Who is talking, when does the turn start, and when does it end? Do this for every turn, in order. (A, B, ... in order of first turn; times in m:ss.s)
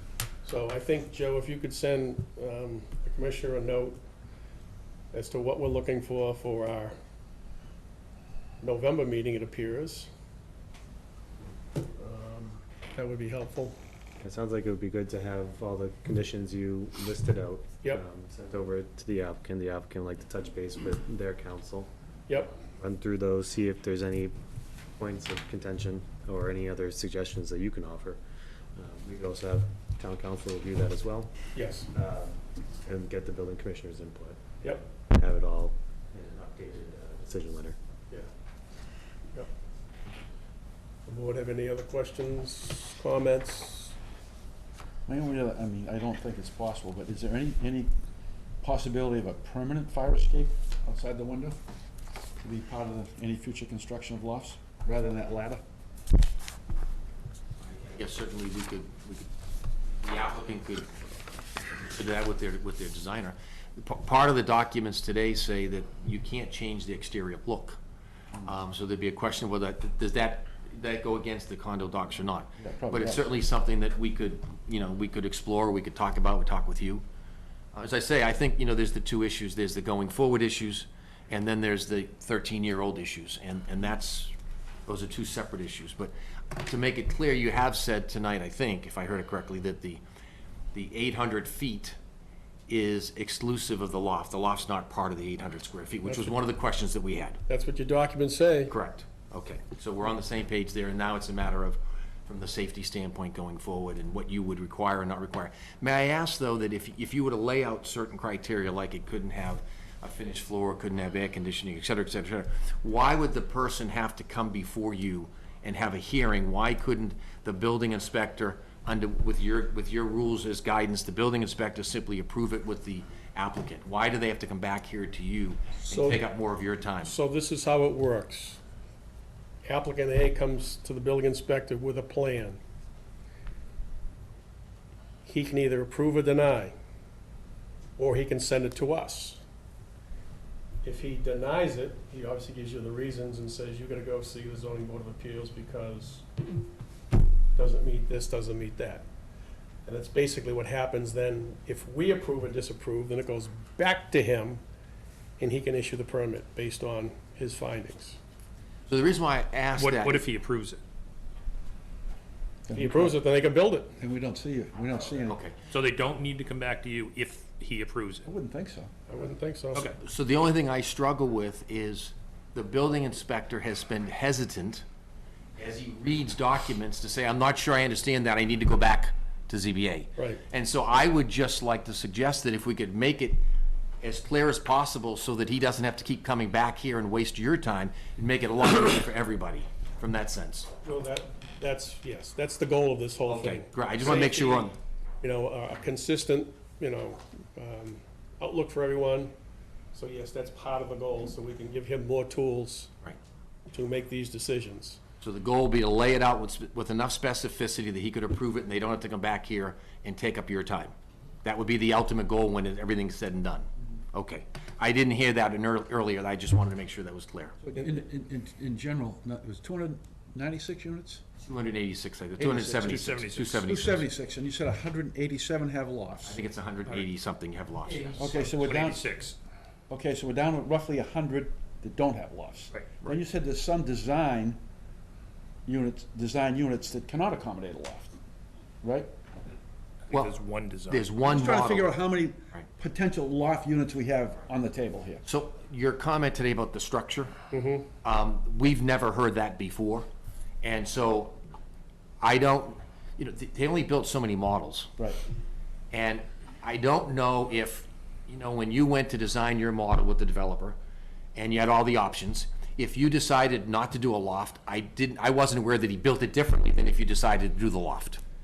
0:00.4-0:04.0 A
0:05.1-0:06.9 A
0:08.6-0:10.1 A
0:12.0-0:13.8 A
0:14.2-0:21.9 B
0:22.6-0:24.3 B
0:25.0-0:28.2 B
0:28.8-0:31.3 B
0:31.5-0:31.9 A
0:31.9-0:37.8 B
0:41.0-0:43.9 A
0:45.0-0:47.9 C
0:48.6-0:51.6 C
0:52.4-0:55.6 C
0:57.6-0:59.3 D
0:59.9-1:00.9 D
1:01.9-1:07.8 D
1:08.4-1:17.0 D
1:12.6-1:13.3 C
1:17.7-1:24.3 D
1:24.9-1:30.0 D
1:30.7-1:32.0 D
1:32.7-1:37.4 D
1:36.0-1:36.4 A
1:37.5-1:38.7 A
1:38.7-2:07.1 D
2:05.8-2:06.2 A
2:07.0-2:08.6 A
2:09.6-2:12.6 A
2:15.2-2:16.7 A
2:18.0-2:19.4 A
2:20.8-2:26.2 A
2:27.5-2:29.0 A
2:29.8-2:34.6 A
2:35.4-2:38.2 A
2:38.9-2:40.2 D
2:39.7-2:40.8 E
2:42.7-2:43.2 C
2:42.7-2:43.9 A
2:44.0-2:45.4 C
2:45.2-2:45.6 D
2:45.7-2:48.2 E
2:48.2-2:48.9 C
2:49.1-2:49.9 A
2:50.0-2:54.8 D
2:55.6-3:03.4 D
3:04.0-3:10.7 D
3:10.8-3:19.3 A
3:13.3-3:14.7 D
3:19.9-3:22.9 A
3:23.7-3:25.0 A
3:25.2-3:30.9 D
3:31.4-3:37.6 D
3:37.7-3:41.2 C
3:41.4-3:44.0 D
3:42.4-3:46.4 C
3:42.9-3:43.6 E
3:46.2-3:48.3 D
3:48.1-3:49.1 C
3:48.6-3:49.2 E
3:49.9-3:54.6 C
3:55.6-3:58.2 C
3:58.8-3:59.1 C
4:00.1-4:00.4 D
4:00.1-4:01.0 E
4:00.9-4:02.0 D
4:01.2-4:05.2 C
4:05.2-4:07.3 D
4:07.5-4:07.9 A
4:08.0-4:10.1 D
4:10.6-4:11.4 D
4:12.2-4:14.9 D
4:15.9-4:20.8 D
4:21.3-4:28.2 D